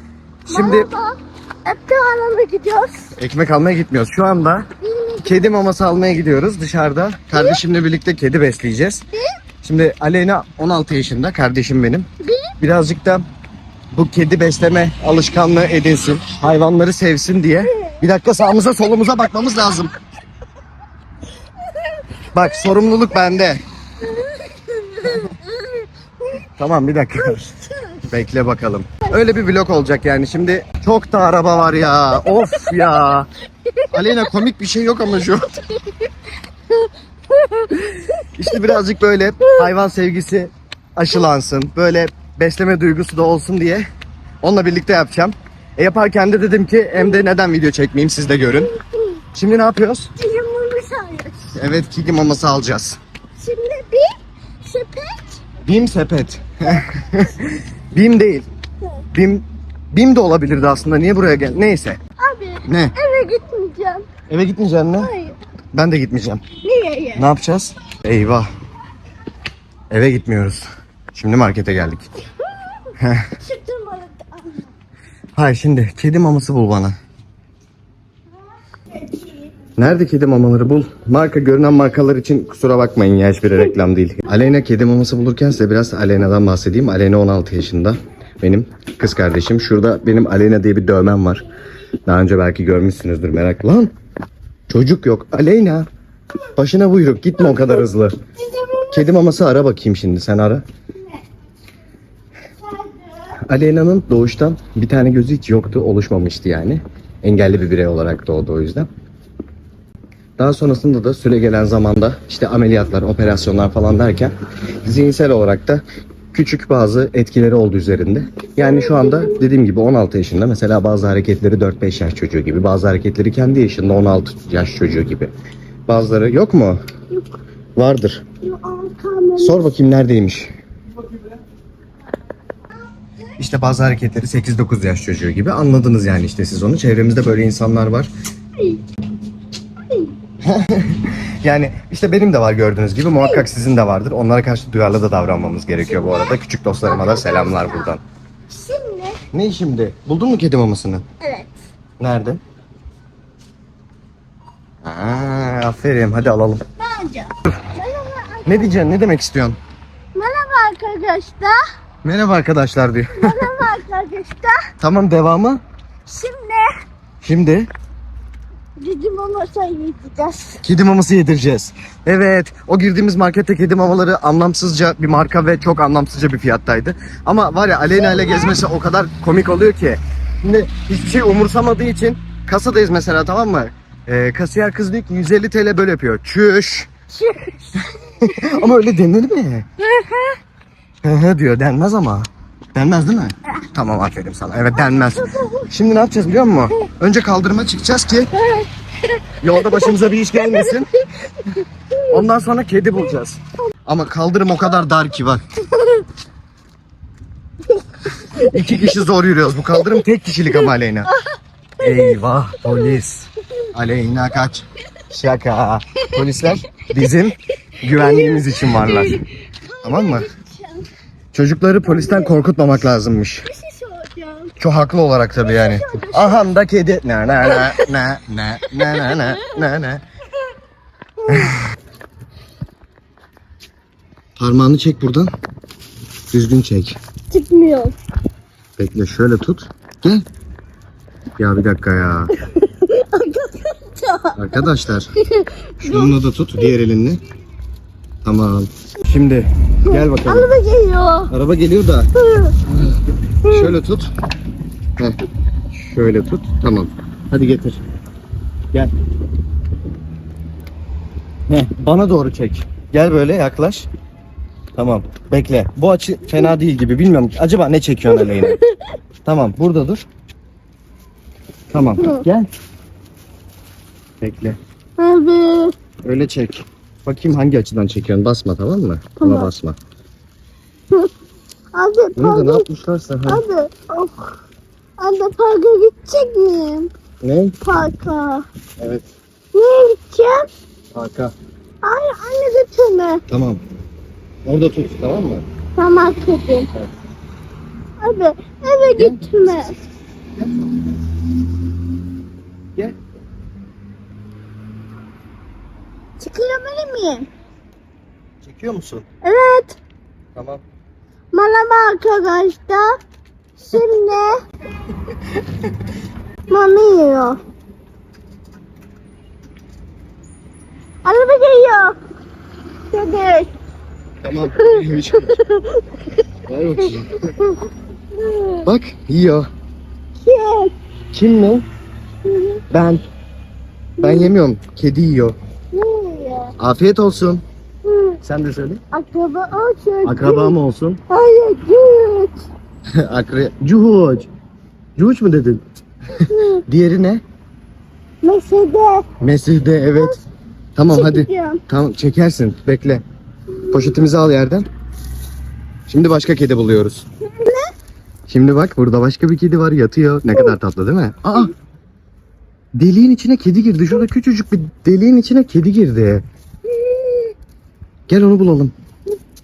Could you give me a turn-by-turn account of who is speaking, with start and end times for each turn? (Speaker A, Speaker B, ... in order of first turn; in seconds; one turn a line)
Speaker A: 0.5-0.9
Speaker B: 0.5-3.1
Speaker A: 3.1-4.6
Speaker B: 4.8-5.5
Speaker A: 5.2-9.0
Speaker B: 7.3-7.6
Speaker A: 9.6-12.1
Speaker B: 12.2-12.5
Speaker A: 12.6-13.2
Speaker A: 13.9-19.9
Speaker B: 17.7-18.0
Speaker A: 22.3-23.6
Speaker B: 24.1-26.4
Speaker A: 26.6-27.4
Speaker B: 27.2-28.0
Speaker A: 28.1-33.3
Speaker B: 33.7-34.2
Speaker A: 33.9-35.5
Speaker B: 35.7-36.1
Speaker B: 36.7-38.7
Speaker A: 38.4-43.8
Speaker A: 44.4-48.7
Speaker B: 47.0-47.2
Speaker B: 48.7-49.2
Speaker A: 49.3-50.1
Speaker B: 50.2-51.5
Speaker A: 51.5-53.0
Speaker B: 53.4-55.4
Speaker A: 55.6-58.5
Speaker A: 59.1-62.0
Speaker B: 62.2-64.1
Speaker A: 62.6-63.0
Speaker A: 64.3-65.1
Speaker B: 65.0-65.3
Speaker A: 65.7-66.4
Speaker B: 66.6-67.3
Speaker A: 67.2-68.5
Speaker A: 69.9-72.1
Speaker B: 72.7-74.7
Speaker A: 73.0-73.3
Speaker A: 75.3-76.9
Speaker B: 79.1-79.4
Speaker A: 79.8-91.4
Speaker A: 92.1-93.9
Speaker A: 94.7-95.9
Speaker A: 96.6-98.2
Speaker B: 97.4-97.8
Speaker B: 98.4-99.0
Speaker A: 98.9-100.6
Speaker B: 102.7-103.1
Speaker A: 103.5-108.9
Speaker A: 110.4-125.3
Speaker B: 118.5-119.4
Speaker A: 125.9-126.8
Speaker A: 127.8-128.2
Speaker B: 128.4-129.7
Speaker A: 129.4-130.5
Speaker A: 133.4-138.1
Speaker B: 138.6-138.8
Speaker B: 139.8-140.1
Speaker A: 140.4-148.0
Speaker B: 143.2-143.5
Speaker B: 145.9-146.3
Speaker B: 146.8-147.9
Speaker B: 148.5-149.2
Speaker A: 149.3-151.0
Speaker B: 151.2-151.5
Speaker A: 152.0-152.4
Speaker A: 154.8-156.6
Speaker B: 156.8-158.8
Speaker A: 158.4-159.6
Speaker B: 160.1-161.6
Speaker A: 162.0-163.5
Speaker B: 163.1-164.6
Speaker A: 164.8-165.6
Speaker B: 166.1-166.7
Speaker A: 167.2-167.7
Speaker B: 168.8-170.6
Speaker A: 170.6-186.9
Speaker B: 178.0-178.5
Speaker B: 187.1-188.4
Speaker A: 188.2-189.7
Speaker B: 189.8-190.4
Speaker A: 191.0-198.3
Speaker B: 194.7-195.7
Speaker B: 198.4-202.2
Speaker A: 199.4-200.9
Speaker A: 202.1-205.4
Speaker B: 205.7-206.0
Speaker B: 207.7-208.6
Speaker A: 208.4-211.1
Speaker A: 211.8-219.2
Speaker B: 211.8-213.0
Speaker B: 217.9-220.9
Speaker A: 219.8-220.3
Speaker A: 221.3-223.5
Speaker B: 221.8-222.3
Speaker B: 223.4-224.5
Speaker A: 224.6-230.0
Speaker B: 225.4-226.5
Speaker B: 227.4-227.9
Speaker B: 228.7-229.6
Speaker B: 231.2-231.5
Speaker A: 231.3-231.6
Speaker A: 234.4-235.3
Speaker A: 236.3-237.0
Speaker B: 237.3-237.9
Speaker A: 238.8-240.2
Speaker A: 241.4-242.3
Speaker B: 242.4-246.7
Speaker A: 244.3-245.1
Speaker A: 245.8-247.2
Speaker A: 248.2-250.5
Speaker B: 249.8-251.3
Speaker A: 251.3-252.1
Speaker B: 252.2-252.6
Speaker A: 252.7-254.1
Speaker B: 253.4-253.7
Speaker A: 255.7-257.8
Speaker A: 261.5-263.9
Speaker A: 264.8-268.6
Speaker B: 268.1-268.8
Speaker A: 269.2-270.0
Speaker A: 271.7-272.5
Speaker B: 272.0-272.2
Speaker A: 274.2-274.6
Speaker B: 275.0-275.8
Speaker A: 276.0-279.8
Speaker B: 279.2-279.5
Speaker B: 281.7-282.7
Speaker A: 282.2-283.4
Speaker B: 283.2-284.4
Speaker B: 285.0-286.9
Speaker A: 287.2-287.6
Speaker B: 287.6-288.5
Speaker A: 288.8-289.1
Speaker B: 289.5-290.5
Speaker A: 290.9-291.3
Speaker B: 291.8-293.2
Speaker A: 293.3-293.6
Speaker A: 294.4-295.4
Speaker B: 295.8-296.7
Speaker B: 298.0-299.7
Speaker A: 298.9-299.7
Speaker A: 300.4-301.0
Speaker B: 306.2-307.3
Speaker A: 308.4-309.1
Speaker B: 309.2-309.8
Speaker A: 310.4-310.6
Speaker B: 311.3-313.0
Speaker B: 313.6-314.4
Speaker B: 316.5-317.4
Speaker B: 321.1-322.0
Speaker B: 322.9-323.5
Speaker A: 324.2-325.4
Speaker B: 324.5-325.9
Speaker A: 326.5-327.1
Speaker B: 326.8-328.7
Speaker A: 328.6-329.5
Speaker B: 330.2-330.7
Speaker A: 331.1-331.6
Speaker B: 332.2-332.6
Speaker A: 332.7-333.0
Speaker B: 334.0-334.3
Speaker A: 334.0-335.4
Speaker B: 335.7-336.5
Speaker A: 336.6-337.4
Speaker B: 337.8-338.2
Speaker A: 338.2-338.8
Speaker B: 338.9-340.6
Speaker A: 340.0-341.0
Speaker B: 341.1-342.4
Speaker A: 343.0-344.3
Speaker A: 345.0-345.6
Speaker B: 346.3-346.6
Speaker A: 346.7-347.2
Speaker B: 348.2-349.1
Speaker A: 349.2-350.2
Speaker A: 350.8-353.0
Speaker B: 350.9-351.6
Speaker A: 353.7-354.6
Speaker A: 355.9-357.1
Speaker B: 357.3-357.7
Speaker A: 358.3-361.5
Speaker A: 362.8-366.2
Speaker B: 366.7-367.3
Speaker A: 368.1-368.7